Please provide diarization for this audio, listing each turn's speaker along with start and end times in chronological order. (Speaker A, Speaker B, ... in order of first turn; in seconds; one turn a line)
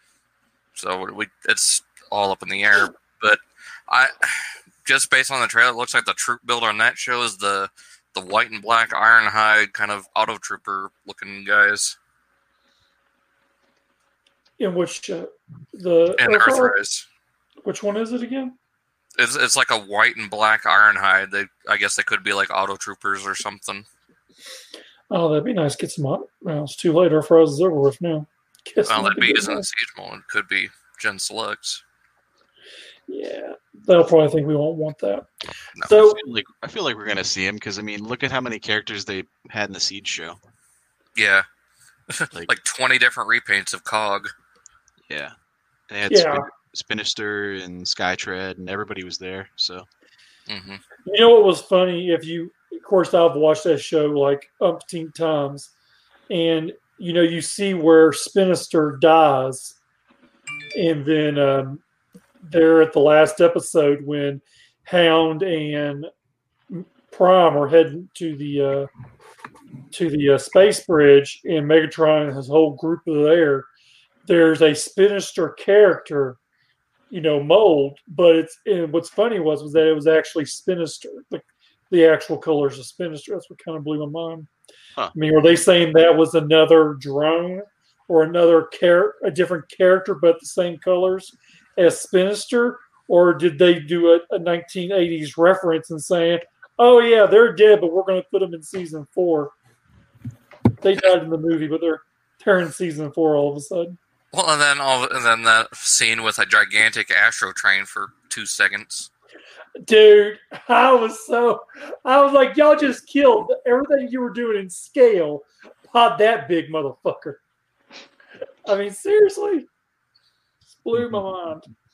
Speaker A: 0.8-11.9
Speaker B: 14.6-16.8
Speaker A: 16.2-17.0
Speaker B: 17.6-18.5
Speaker A: 19.2-23.9
Speaker B: 25.1-29.6
Speaker A: 28.9-31.8
Speaker B: 33.1-35.2
Speaker B: 35.8-36.2
Speaker C: 36.0-40.4
Speaker A: 41.1-41.5
Speaker A: 42.1-44.3
Speaker C: 45.1-45.3
Speaker C: 45.9-49.9
Speaker B: 46.1-46.5
Speaker A: 50.5-50.8
Speaker B: 51.0-55.7
Speaker B: 56.3-59.8
Speaker B: 60.7-61.8
Speaker B: 62.5-66.1
Speaker B: 66.7-68.9
Speaker B: 69.9-73.7
Speaker B: 74.2-76.4
Speaker B: 77.1-84.5
Speaker B: 85.2-99.5
Speaker B: 100.8-104.0
Speaker A: 104.3-109.1
Speaker B: 109.8-117.4
Speaker B: 118.7-119.7
Speaker B: 120.7-121.7